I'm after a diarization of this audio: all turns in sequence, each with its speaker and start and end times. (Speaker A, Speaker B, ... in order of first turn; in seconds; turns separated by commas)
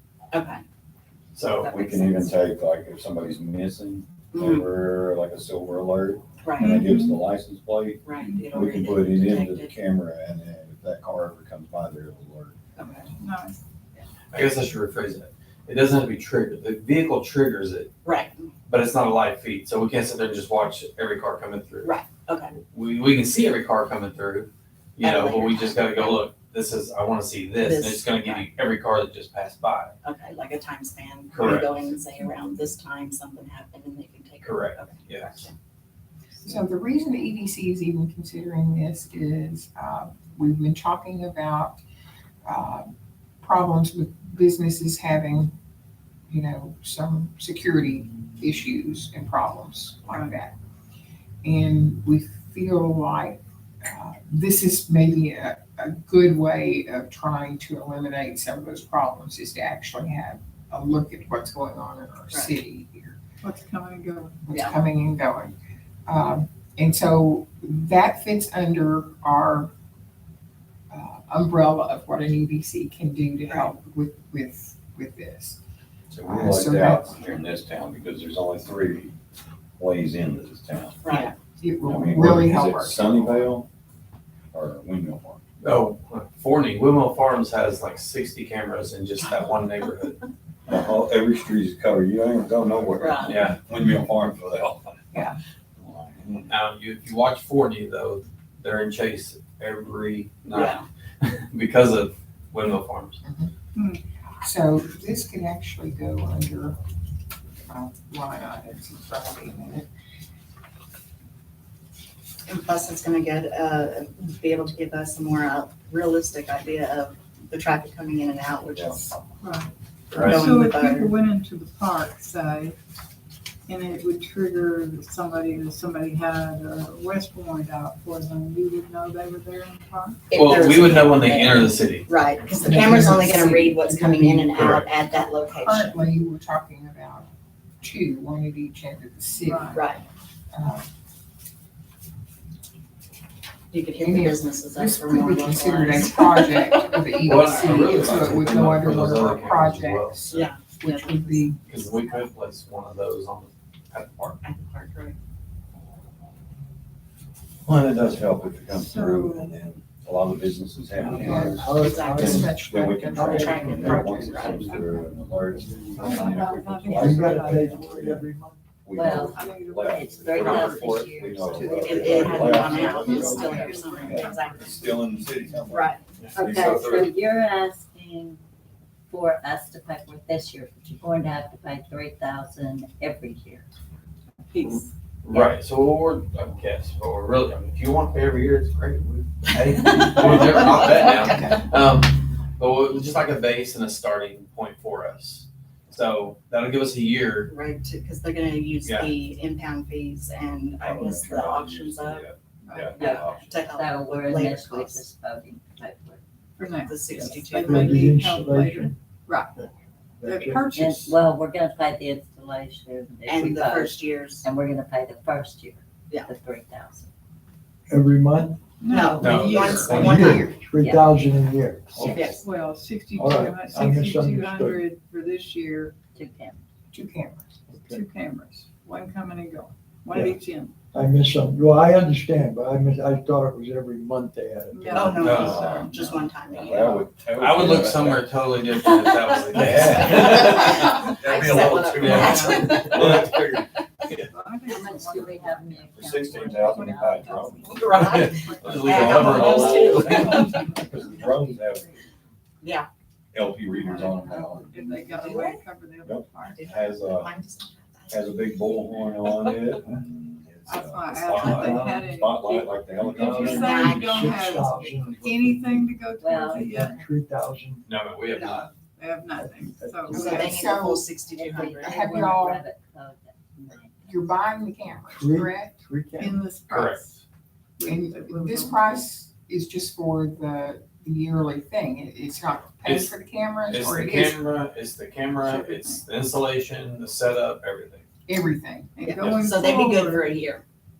Speaker A: 0.3-0.6, Speaker B: 1.3-1.7, Speaker A: 1.5-2.4, Speaker C: 1.7-12.6, Speaker A: 4.3-4.7, Speaker A: 6.4-6.8, Speaker D: 6.6-7.2, Speaker A: 8.0-9.7, Speaker D: 8.2-8.5, Speaker A: 12.8-13.1, Speaker D: 13.2-13.6, Speaker B: 14.3-17.9, Speaker A: 18.0-18.5, Speaker B: 18.7-21.9, Speaker A: 21.8-22.6, Speaker B: 22.7-29.9, Speaker A: 25.0-26.2, Speaker A: 27.6-28.5, Speaker A: 30.0-35.5, Speaker B: 31.3-31.9, Speaker B: 34.4-35.5, Speaker E: 36.4-41.8, Speaker E: 42.4-45.5, Speaker E: 46.3-50.5, Speaker D: 50.1-50.4, Speaker E: 51.4-63.2, Speaker A: 62.3-62.6, Speaker D: 63.4-64.5, Speaker E: 64.5-69.7, Speaker A: 64.5-64.8, Speaker E: 70.9-75.6, Speaker A: 73.5-73.7, Speaker C: 76.1-79.1, Speaker E: 76.2-77.2, Speaker C: 79.8-81.0, Speaker A: 81.0-81.3, Speaker E: 81.1-83.5, Speaker C: 81.8-83.7, Speaker C: 84.5-85.4, Speaker B: 85.6-90.3, Speaker C: 90.7-95.0, Speaker A: 93.0-93.3, Speaker B: 93.3-93.6, Speaker E: 95.1-95.4, Speaker C: 95.8-96.5, Speaker B: 96.5-103.2, Speaker A: 100.6-100.8, Speaker E: 103.2-103.5, Speaker D: 103.7-104.0, Speaker E: 104.4-106.8, Speaker E: 107.7-109.9, Speaker A: 112.5-119.1, Speaker C: 118.7-119.0, Speaker D: 119.4-122.8, Speaker B: 120.1-120.4, Speaker A: 120.2-121.1, Speaker D: 123.7-130.3, Speaker A: 130.3-135.9, Speaker B: 130.3-132.1, Speaker E: 132.5-134.6, Speaker B: 134.5-134.9, Speaker E: 135.5-137.3, Speaker E: 137.8-140.9, Speaker D: 139.4-139.8, Speaker A: 139.7-140.0, Speaker A: 143.7-146.8, Speaker E: 144.0-151.6, Speaker B: 147.2-150.5, Speaker A: 150.3-151.5, Speaker B: 151.7-154.4, Speaker A: 154.4-155.2, Speaker C: 157.7-168.2, Speaker D: 158.7-159.5, Speaker F: 160.9-164.6, Speaker E: 161.2-165.0, Speaker A: 161.8-162.3, Speaker A: 163.3-164.7, Speaker D: 164.6-164.8, Speaker F: 165.8-168.6, Speaker D: 165.9-168.0, Speaker C: 168.8-177.1, Speaker G: 168.9-173.6, Speaker D: 169.3-170.8, Speaker B: 170.3-170.8, Speaker A: 171.8-175.0, Speaker D: 172.7-175.4, Speaker A: 175.6-176.2, Speaker B: 176.2-176.7, Speaker G: 176.3-178.4, Speaker G: 179.1-183.7, Speaker D: 184.5-184.9, Speaker B: 184.6-197.5, Speaker A: 190.8-191.3, Speaker A: 197.4-202.2, Speaker B: 198.8-199.1, Speaker C: 200.8-203.6, Speaker D: 202.6-202.9, Speaker A: 202.9-205.1, Speaker G: 203.0-206.2, Speaker D: 206.6-209.7, Speaker A: 206.8-208.1, Speaker F: 207.4-208.9, Speaker F: 210.2-210.7, Speaker D: 210.2-211.2, Speaker G: 210.7-217.1, Speaker A: 213.3-214.4, Speaker F: 217.9-222.3, Speaker D: 218.8-220.0, Speaker A: 218.8-220.6, Speaker B: 219.2-220.3, Speaker E: 219.5-220.5, Speaker G: 220.8-222.4, Speaker A: 222.1-222.4, Speaker D: 222.3-225.9, Speaker F: 223.1-224.8, Speaker G: 226.1-226.6, Speaker E: 226.9-227.5, Speaker F: 227.7-228.0, Speaker D: 227.8-230.7, Speaker F: 230.1-230.4, Speaker F: 230.9-235.8, Speaker D: 234.7-235.1, Speaker A: 234.9-237.1, Speaker B: 235.2-235.6, Speaker C: 235.3-238.3, Speaker B: 237.4-241.0, Speaker A: 238.8-239.3, Speaker C: 239.5-243.7, Speaker A: 239.9-244.0, Speaker B: 242.0-243.3, Speaker D: 242.1-242.6, Speaker D: 244.1-250.8, Speaker G: 244.7-247.8, Speaker C: 245.9-251.9, Speaker A: 247.6-250.6, Speaker B: 247.9-250.2, Speaker G: 251.1-251.6, Speaker A: 252.6-252.9, Speaker C: 253.3-255.4, Speaker D: 253.8-254.1, Speaker A: 253.9-255.6, Speaker D: 254.7-256.7, Speaker C: 256.0-257.4, Speaker A: 256.5-259.7, Speaker C: 258.1-264.0, Speaker D: 260.6-267.0, Speaker F: 261.3-262.0, Speaker F: 263.0-265.9, Speaker A: 263.5-264.8, Speaker G: 266.2-267.0, Speaker F: 266.4-268.5, Speaker B: 267.8-268.7, Speaker D: 268.3-270.5, Speaker F: 269.3-270.6, Speaker A: 270.1-272.5, Speaker E: 270.2-271.0, Speaker G: 271.3-274.3, Speaker E: 271.8-272.6, Speaker E: 274.0-275.7, Speaker F: 275.1-276.4, Speaker D: 276.2-277.2, Speaker B: 276.7-277.2, Speaker D: 277.8-278.9, Speaker E: 277.8-284.4, Speaker B: 282.8-283.1, Speaker B: 283.7-288.0, Speaker D: 285.4-286.0, Speaker E: 288.3-289.0, Speaker D: 288.9-290.5, Speaker A: 289.0-290.6